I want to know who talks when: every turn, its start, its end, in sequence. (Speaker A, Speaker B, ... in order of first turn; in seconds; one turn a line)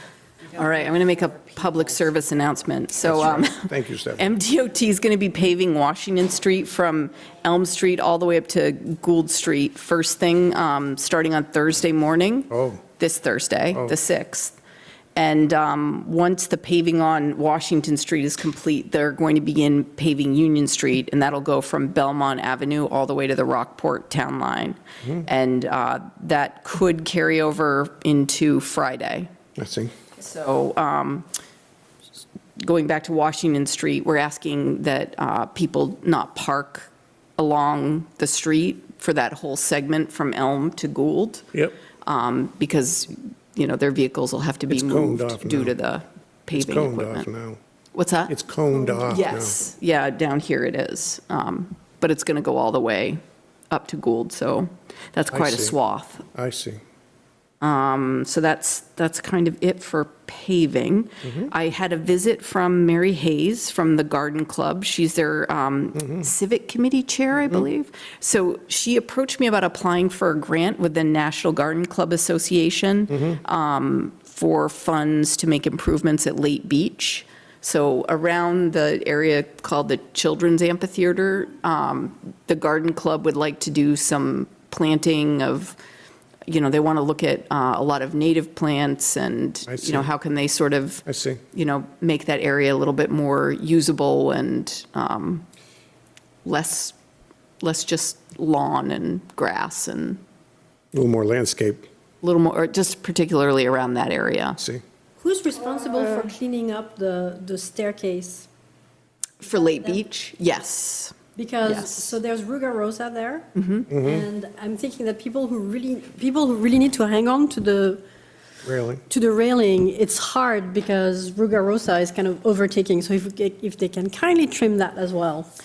Speaker A: 0.5-14.5
Speaker B: 3.0-4.3
Speaker B: 12.5-12.8
Speaker A: 15.1-29.3
Speaker B: 29.6-29.9
Speaker A: 30.2-31.2
Speaker A: 32.6-41.5
Speaker A: 42.0-47.3
Speaker B: 44.7-45.7
Speaker B: 46.5-47.6
Speaker A: 47.9-48.3
Speaker B: 48.3-49.6
Speaker A: 49.1-53.2
Speaker A: 53.7-56.2
Speaker B: 55.3-55.7
Speaker B: 56.3-56.8
Speaker A: 57.6-85.8
Speaker A: 86.5-95.4
Speaker B: 89.7-90.1
Speaker B: 91.0-91.4
Speaker A: 96.4-96.9
Speaker A: 97.6-100.2
Speaker B: 100.9-101.8
Speaker A: 102.2-104.6
Speaker C: 105.2-108.5
Speaker A: 109.4-112.2
Speaker C: 109.5-110.0
Speaker C: 111.3-118.0
Speaker A: 113.5-113.9
Speaker B: 113.9-114.2
Speaker B: 118.6-119.0
Speaker C: 119.1-125.5